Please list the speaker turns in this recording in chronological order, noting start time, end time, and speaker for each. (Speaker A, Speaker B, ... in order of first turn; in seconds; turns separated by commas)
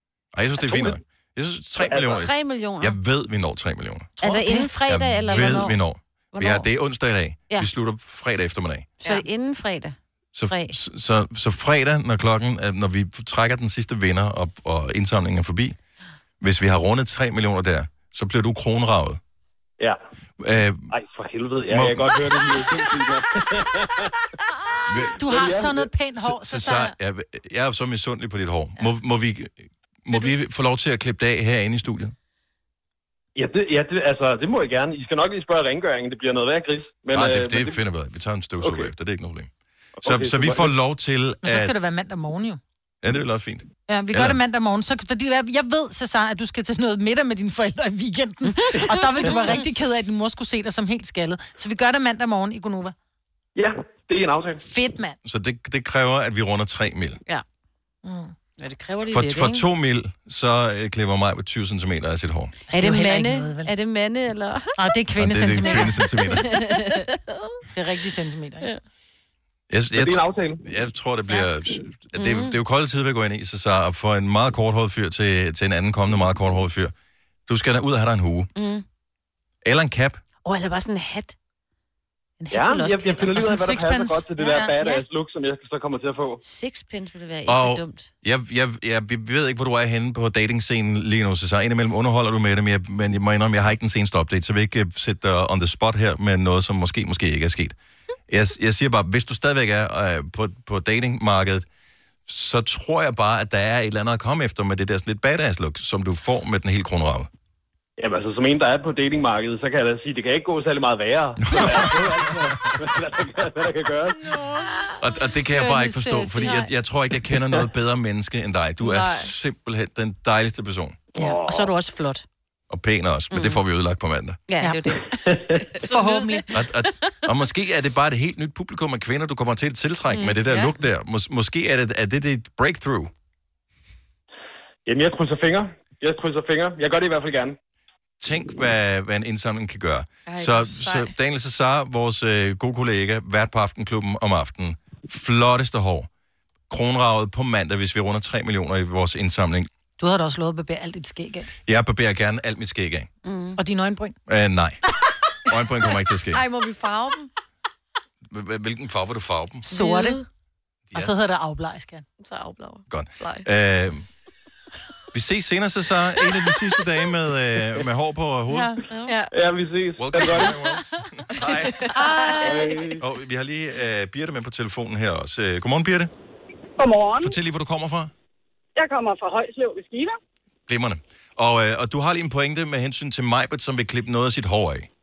Speaker A: 0.3-4.2, Speaker B: 0.6-0.9, Speaker B: 1.8-2.3, Speaker C: 1.9-3.0, Speaker D: 4.2-4.7, Speaker C: 4.2-5.8, Speaker A: 4.9-8.9, Speaker D: 5.3-5.7, Speaker C: 6.3-6.7, Speaker C: 9.0-10.8, Speaker A: 10.3-15.8, Speaker A: 16.4-19.2, Speaker A: 20.4-20.9, Speaker B: 20.9-24.1, Speaker A: 21.7-22.2, Speaker A: 24.9-25.2, Speaker D: 25.2-26.9, Speaker B: 25.2-25.9, Speaker A: 26.2-32.1, Speaker B: 33.4-37.8, Speaker A: 37.1-39.5, Speaker B: 38.6-38.9, Speaker B: 40.0-40.7, Speaker A: 40.0-41.8, Speaker D: 41.4-42.6, Speaker A: 43.0-44.4, Speaker D: 43.9-52.9, Speaker C: 48.5-49.6, Speaker B: 53.6-54.6, Speaker D: 54.6-55.2, Speaker A: 55.2-57.2, Speaker D: 58.0-58.3, Speaker C: 58.6-59.6, Speaker A: 59.1-62.5, Speaker D: 62.7-63.7, Speaker C: 62.7-64.7, Speaker D: 64.8-66.0, Speaker A: 65.2-66.6, Speaker C: 65.7-67.5, Speaker D: 67.7-68.7, Speaker A: 69.7-76.9, Speaker B: 69.9-70.7, Speaker C: 72.1-72.6, Speaker A: 77.5-78.5, Speaker C: 78.6-78.8, Speaker A: 79.6-80.2, Speaker C: 80.5-81.4, Speaker C: 82.4-83.7, Speaker B: 82.5-86.4, Speaker D: 83.3-84.7, Speaker C: 84.5-85.1, Speaker C: 86.4-88.1, Speaker A: 87.5-97.7, Speaker A: 98.3-101.7, Speaker A: 102.3-107.3, Speaker B: 108.0-114.2, Speaker A: 111.4-112.9, Speaker C: 114.3-116.7, Speaker A: 115.0-121.0, Speaker E: 118.8-119.3, Speaker B: 121.1-121.7, Speaker C: 121.2-122.2, Speaker A: 122.7-124.4, Speaker C: 123.3-123.6, Speaker C: 124.5-126.9, Speaker D: 124.6-124.9, Speaker B: 125.2-125.6, Speaker D: 125.8-126.5, Speaker A: 126.5-133.1, Speaker C: 130.1-130.4, Speaker B: 134.9-137.6, Speaker A: 138.2-146.1, Speaker E: 140.3-141.1, Speaker A: 146.7-149.7, Speaker D: 150.0-151.5, Speaker A: 151.7-153.1, Speaker C: 153.2-153.6, Speaker D: 153.6-154.2, Speaker A: 154.3-154.8, Speaker A: 155.4-156.4, Speaker E: 156.3-157.3, Speaker A: 158.3-159.7, Speaker D: 159.7-160.2, Speaker E: 159.7-160.2, Speaker D: 160.9-162.1, Speaker E: 162.2-163.4, Speaker A: 162.9-164.1, Speaker A: 165.1-168.8, Speaker D: 168.5-168.8, Speaker E: 168.9-169.3, Speaker B: 169.3-170.6, Speaker A: 170.0-171.9, Speaker E: 171.4-172.7, Speaker D: 171.9-172.9, Speaker B: 172.4-173.0, Speaker A: 173.0-176.1, Speaker F: 176.8-177.3, Speaker A: 177.2-178.1, Speaker F: 178.8-180.2, Speaker A: 180.7-184.9